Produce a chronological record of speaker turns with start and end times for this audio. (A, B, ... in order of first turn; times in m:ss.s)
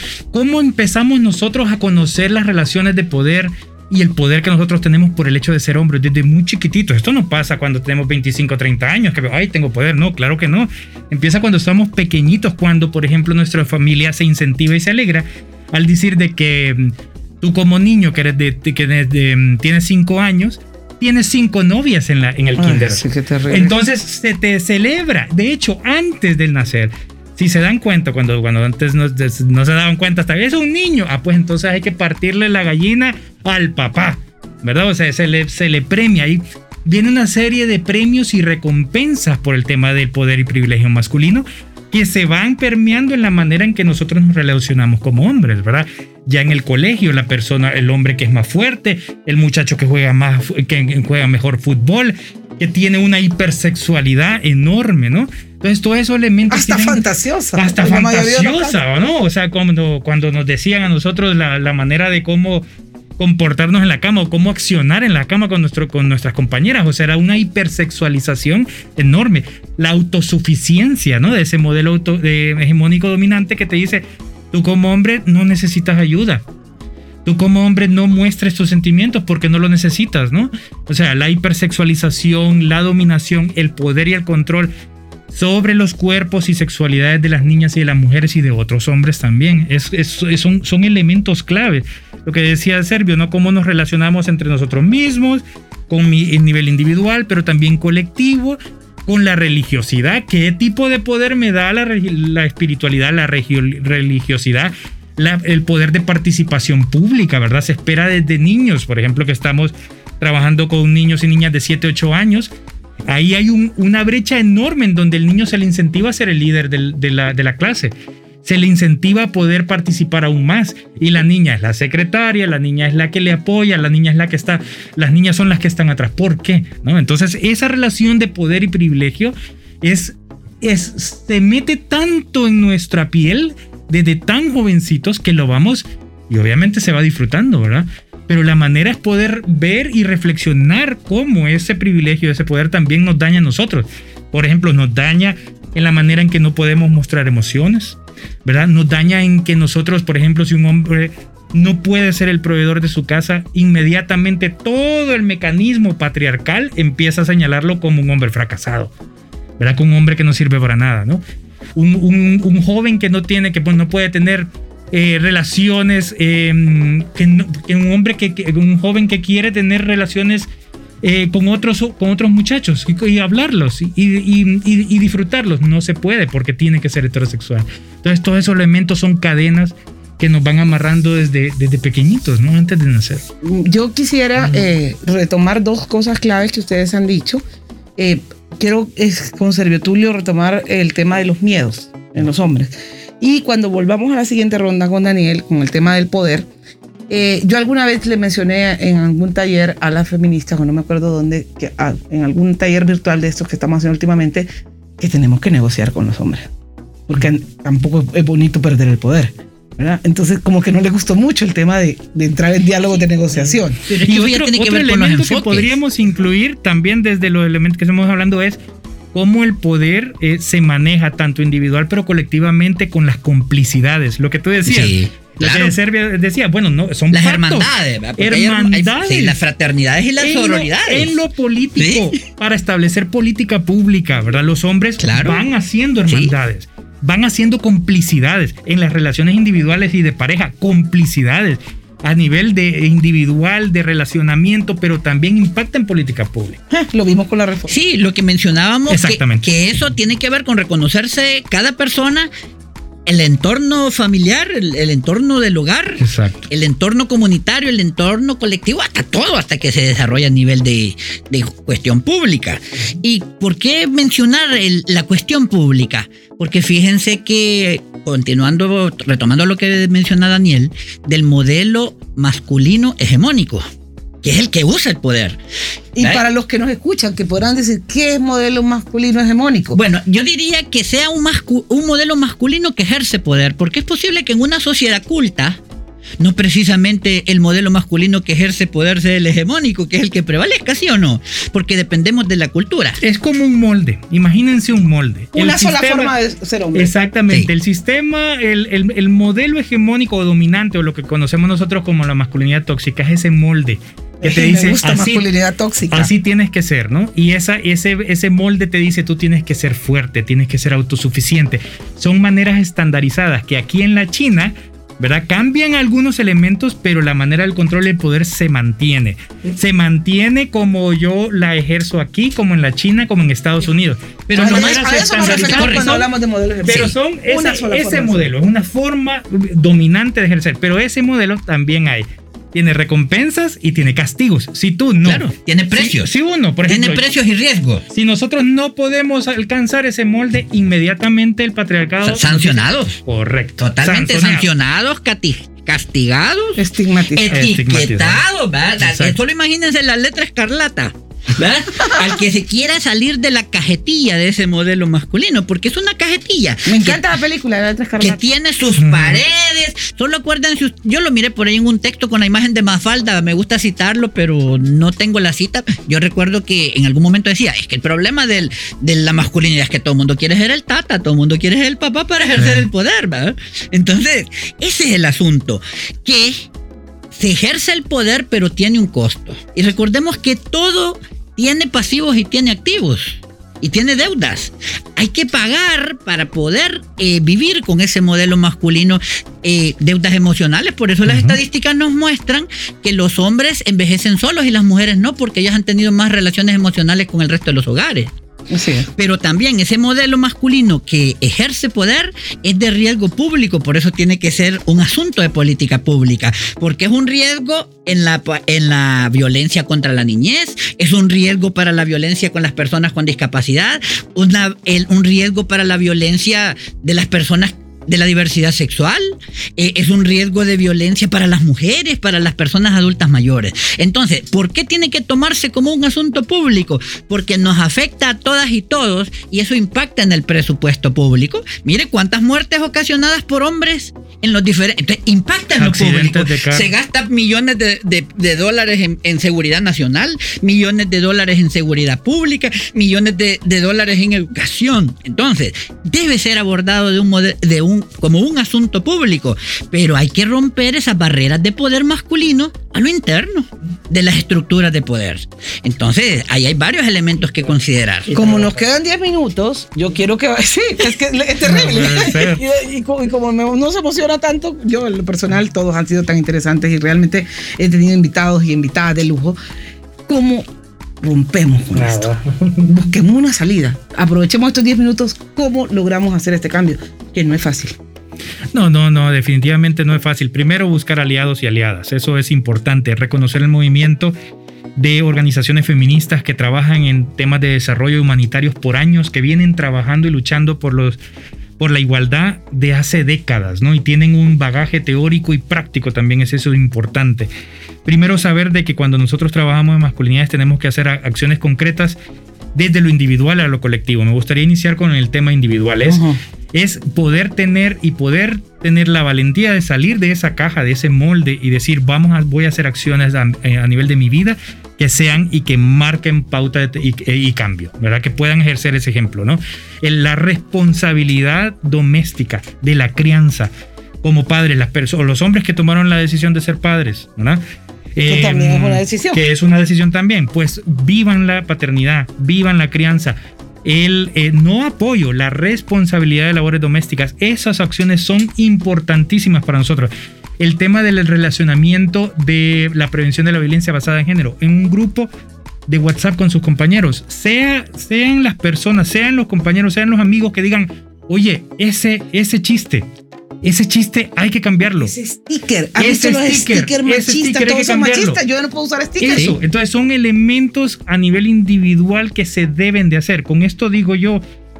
0:00.3-0:57.0 A
0:22.6-0:23.8 B
0:56.5-0:58.8 B
0:57.6-1:02.6 A
1:03.2-1:16.4 A
1:17.2-1:24.7 A
1:25.3-1:52.5 A
1:53.1-1:57.9 A
1:58.4-2:38.9 A
2:39.6-2:41.2 A
2:41.8-2:50.5 A
2:51.0-3:03.2 A
3:03.4-3:07.4 B
3:04.4-3:04.7 A
3:08.0-3:16.5 B
3:17.1-3:24.5 B
3:25.0-3:26.5 B
3:27.1-3:33.8 B
3:33.8-3:35.7 C
3:34.0-3:38.6 A
3:39.1-3:49.4 A
3:44.7-3:45.8 C
3:47.1-3:51.2 C
3:50.2-4:06.6 A
3:51.8-3:52.2 C
3:55.0-3:55.4 C
4:06.7-4:07.8 B
4:07.7-4:12.3 C
4:08.9-4:09.4 A
4:13.1-4:33.7 C
4:16.0-4:16.5 A
4:34.2-4:35.4 C
4:36.0-4:39.8 B
4:39.8-4:45.6 C
4:46.2-4:53.0 C
4:53.0-4:56.1 A
4:55.4-4:56.9 B
4:56.7-5:05.2 A
5:04.2-5:06.1 B
5:05.9-5:26.1 A
5:24.3-5:26.0 C
5:24.4-5:28.3 B
5:26.6-5:37.0 A
5:35.0-5:36.1 C
5:36.7-5:37.8 C
5:37.9-5:44.5 A
5:42.0-5:43.0 C
5:43.6-5:46.6 C
5:46.6-5:47.4 B
5:47.1-5:57.0 C
5:47.3-5:48.2 A
5:48.8-5:49.2 A
5:56.7-5:58.2 B
5:58.0-6:16.5 C
5:58.8-5:59.2 A
6:12.4-6:12.6 A
6:17.1-6:38.2 C
6:31.0-6:31.4 A
6:38.5-6:38.9 B
6:39.0-7:38.1 C
7:15.6-7:16.7 A
7:38.1-7:38.6 A
7:38.1-7:49.4 B
7:41.4-7:42.4 A
7:50.1-7:50.5 B
7:51.0-7:52.1 B
7:51.8-7:52.7 A
7:52.6-7:57.8 B
7:58.5-8:04.2 A
8:04.8-8:11.0 A
8:11.6-8:17.3 A
8:17.8-8:22.0 A
8:22.5-8:43.5 A
8:25.8-8:26.2 B
8:44.0-8:47.4 A
8:48.0-9:05.1 A
8:48.1-8:49.2 B
9:05.7-9:12.9 A
9:13.4-9:14.9 A
9:14.8-9:19.4 B
9:15.8-9:18.2 A
9:19.0-9:24.2 A